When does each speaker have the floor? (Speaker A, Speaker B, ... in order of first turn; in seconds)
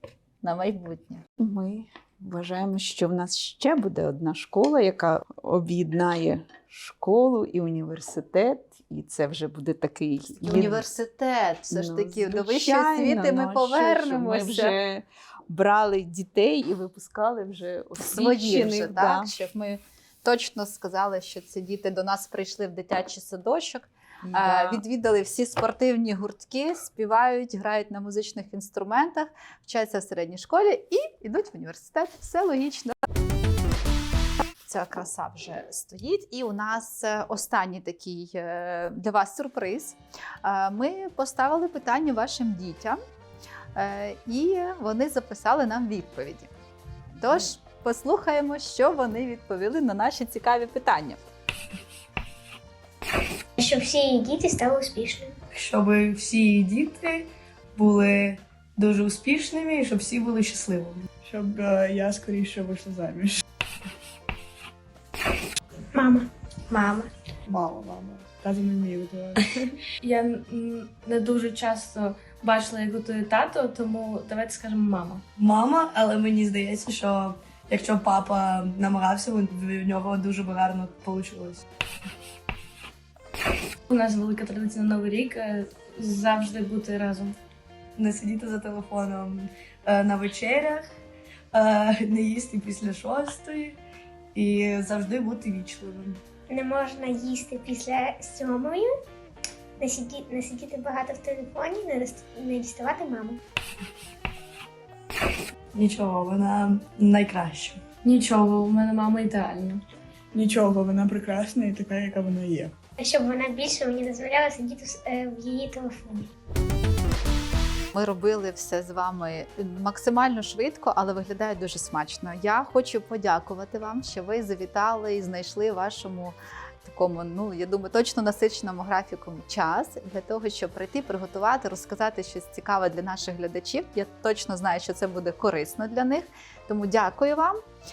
Speaker A: 0.4-1.2, 10.4-14.7, 18.0-33.0, 34.6-43.0, 43.7-46.5, 47.2-51.2, 117.9-137.6
Speaker B: 1.4-10.8, 11.7-19.3, 24.2-24.8
Speaker C: 53.6-55.3, 65.9-67.1, 96.5-98.9, 99.8-103.4, 113.0-116.3
Speaker D: 55.5-61.1, 75.4-81.6, 88.0-90.9, 91.5-93.8, 94.3-96.2, 105.7-107.8
Speaker E: 61.2-63.4, 67.5-69.5, 110.3-112.7
Speaker F: 70.0-75.2, 83.9-87.3, 108.0-109.8